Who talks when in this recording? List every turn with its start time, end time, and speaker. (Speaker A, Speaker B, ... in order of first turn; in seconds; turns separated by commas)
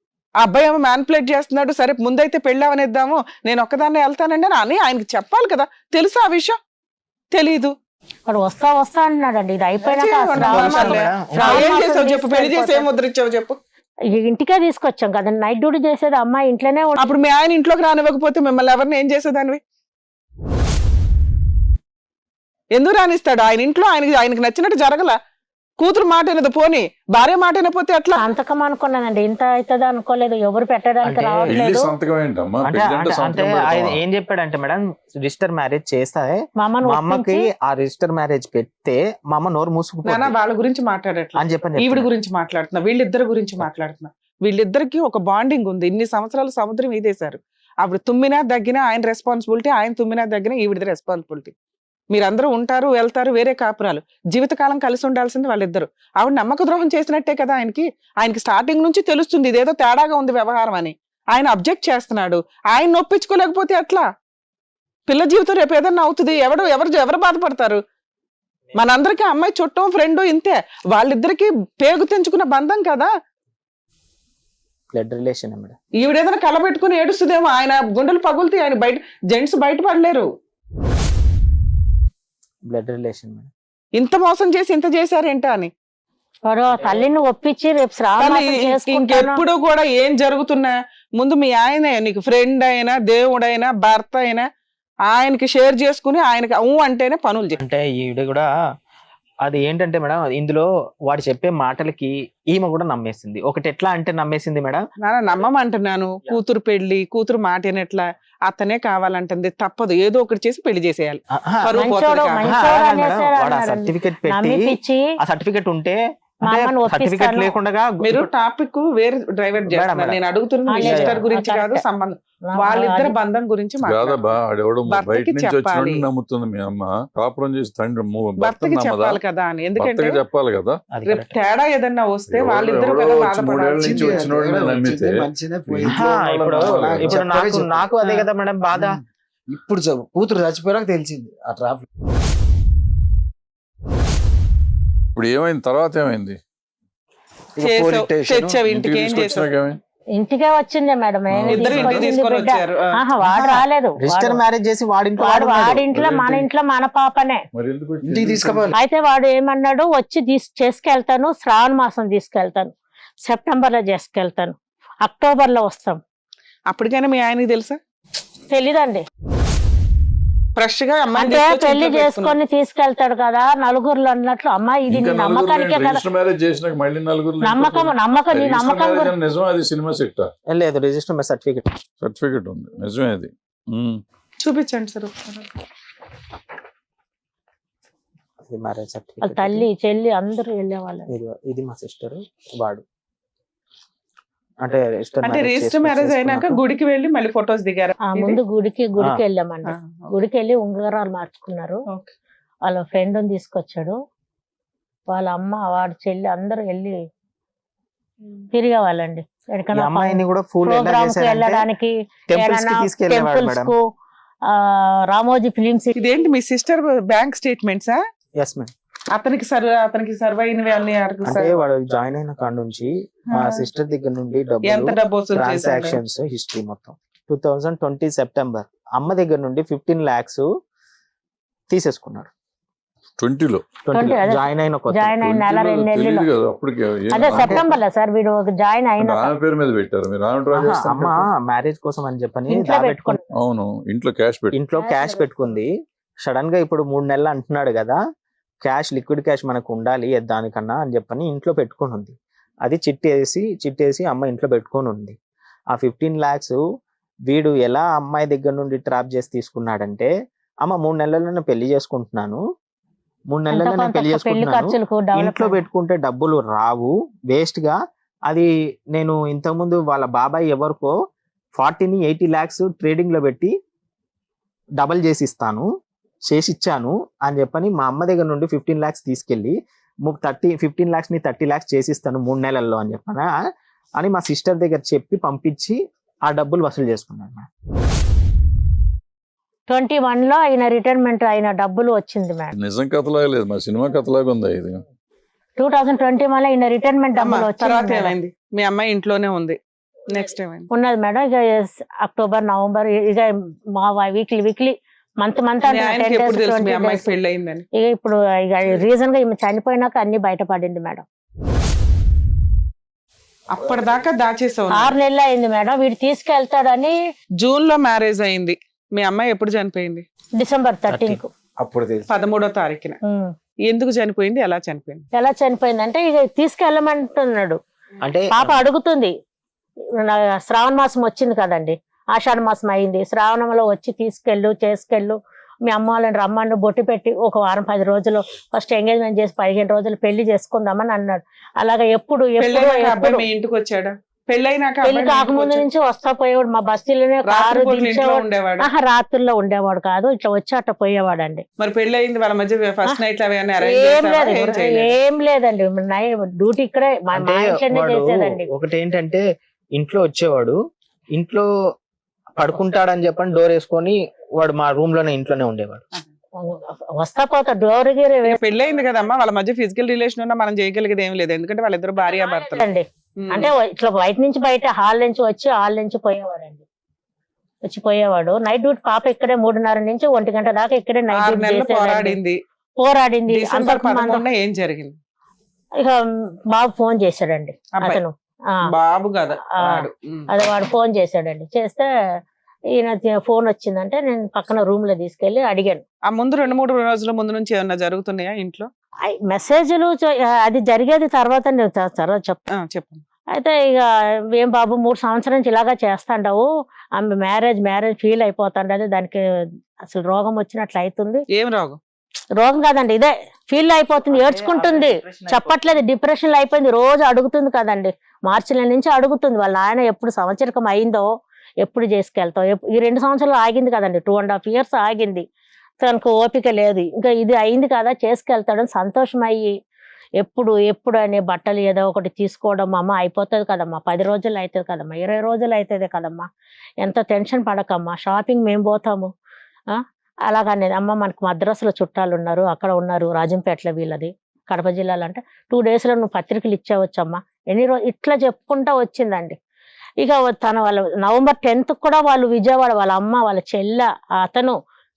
Speaker A: 0.4-6.6, Speaker A: 7.3-7.8, Speaker B: 8.3-12.9, Speaker A: 9.8-13.6, Speaker C: 10.3-11.8, Speaker B: 14.1-17.0, Speaker A: 17.0-19.6, Speaker A: 22.7-25.2, Speaker A: 25.8-28.2, Speaker B: 28.2-31.9, Speaker C: 31.0-31.6, Speaker D: 31.5-34.0, Speaker C: 32.6-40.3, Speaker B: 36.6-37.5, Speaker A: 40.0-51.5, Speaker C: 41.4-42.1, Speaker A: 52.1-64.1, Speaker A: 65.1-67.8, Speaker A: 68.8-73.1, Speaker C: 74.9-75.8, Speaker A: 76.0-80.3, Speaker C: 82.7-83.5, Speaker A: 84.0-85.7, Speaker B: 86.5-89.4, Speaker C: 86.7-87.0, Speaker A: 88.2-94.5, Speaker A: 95.1-97.6, Speaker C: 97.6-98.5, Speaker C: 99.5-104.8, Speaker A: 105.0-112.6, Speaker C: 111.3-111.7, Speaker B: 111.8-115.1, Speaker C: 112.5-118.3, Speaker B: 116.5-117.5, Speaker A: 118.0-124.3, Speaker C: 119.7-120.3, Speaker B: 120.7-121.8, Speaker C: 120.8-121.2, Speaker B: 122.5-123.1, Speaker D: 123.8-129.2, Speaker A: 124.9-126.0, Speaker A: 128.4-130.2, Speaker D: 129.8-130.8, Speaker C: 130.9-131.3, Speaker A: 131.1-134.2, Speaker D: 132.3-137.3, Speaker E: 133.8-138.2, Speaker C: 135.9-139.0, Speaker E: 139.5-141.8, Speaker D: 145.2-146.4, Speaker E: 147.6-148.6, Speaker A: 147.6-149.5, Speaker D: 148.7-149.8, Speaker B: 150.2-154.4, Speaker D: 151.3-152.0, Speaker A: 151.5-153.0, Speaker C: 153.2-155.9, Speaker B: 155.2-157.4, Speaker D: 155.9-156.5, Speaker D: 157.5-158.8, Speaker E: 158.0-158.8, Speaker B: 158.7-162.7, Speaker B: 163.2-166.0, Speaker A: 166.7-167.8, Speaker B: 168.5-169.1, Speaker A: 170.6-172.4, Speaker B: 171.1-176.0, Speaker D: 174.9-180.3, Speaker B: 177.4-179.1, Speaker C: 180.5-181.7, Speaker D: 182.0-184.0, Speaker A: 184.4-185.5, Speaker C: 188.4-189.7, Speaker B: 189.2-191.1, Speaker C: 191.1-192.8, Speaker C: 194.6-196.6, Speaker A: 195.2-198.4, Speaker B: 198.1-201.8, Speaker A: 199.7-200.2, Speaker B: 202.7-203.9, Speaker B: 205.1-207.0, Speaker B: 208.5-213.8, Speaker C: 209.7-211.7, Speaker C: 212.3-213.7, Speaker B: 214.5-215.9, Speaker A: 215.9-218.0, Speaker C: 218.4-218.7, Speaker A: 219.2-221.6, Speaker C: 221.2-230.5, Speaker A: 223.3-223.7, Speaker A: 224.7-226.0, Speaker C: 231.7-232.3, Speaker D: 233.2-233.7, Speaker C: 233.8-235.2, Speaker B: 233.9-236.3, Speaker D: 235.2-237.7, Speaker B: 237.1-239.3, Speaker C: 237.3-237.7, Speaker D: 239.0-241.3, Speaker C: 240.5-243.2, Speaker B: 242.5-243.2, Speaker D: 243.3-244.6, Speaker C: 244.5-245.7, Speaker B: 244.8-245.5, Speaker C: 246.2-248.0, Speaker C: 248.6-255.2, Speaker C: 255.7-256.6, Speaker C: 257.3-260.1, Speaker C: 260.6-262.4, Speaker C: 263.3-267.8, Speaker B: 263.5-265.6, Speaker C: 268.3-270.9, Speaker C: 271.6-273.5, Speaker C: 274.8-275.7, Speaker C: 276.3-283.3, Speaker C: 284.0-287.5, Speaker B: 289.7-292.6, Speaker D: 292.6-294.8, Speaker B: 295.6-298.1, Speaker A: 297.2-299.6, Speaker A: 300.1-300.7, Speaker B: 300.7-307.1, Speaker A: 305.7-307.6, Speaker B: 307.8-311.0, Speaker A: 313.5-314.9, Speaker B: 314.8-316.9, Speaker A: 317.4-320.1, Speaker B: 320.4-321.3, Speaker C: 320.9-321.2, Speaker E: 321.6-322.1, Speaker A: 322.1-323.0, Speaker B: 323.0-323.3, Speaker A: 323.7-325.0, Speaker B: 325.1-327.6, Speaker C: 328.0-328.7, Speaker B: 328.3-329.1, Speaker B: 330.0-343.3, Speaker A: 342.4-345.7, Speaker B: 344.8-351.4, Speaker A: 347.3-348.7, Speaker A: 351.6-354.9, Speaker B: 353.6-358.5, Speaker C: 357.1-359.2, Speaker C: 359.8-360.6, Speaker C: 361.1-361.4, Speaker C: 362.4-365.8, Speaker B: 366.4-368.4, Speaker A: 368.3-372.7, Speaker B: 372.0-376.6, Speaker A: 373.2-373.5, Speaker B: 377.7-382.2, Speaker A: 381.1-382.4, Speaker B: 382.8-384.2, Speaker A: 383.3-385.0, Speaker B: 385.8-388.6, Speaker A: 388.7-390.3, Speaker B: 389.6-391.9, Speaker B: 392.8-395.8, Speaker A: 396.1-398.7, Speaker B: 399.1-402.4, Speaker A: 402.6-403.0, Speaker B: 403.3-411.2, Speaker A: 411.3-411.8, Speaker B: 412.4-421.1, Speaker C: 414.1-415.6, Speaker B: 421.6-425.2, Speaker B: 425.8-429.5, Speaker B: 430.2-436.3, Speaker B: 436.8-439.1, Speaker B: 439.7-449.4, Speaker B: 450.0-454.6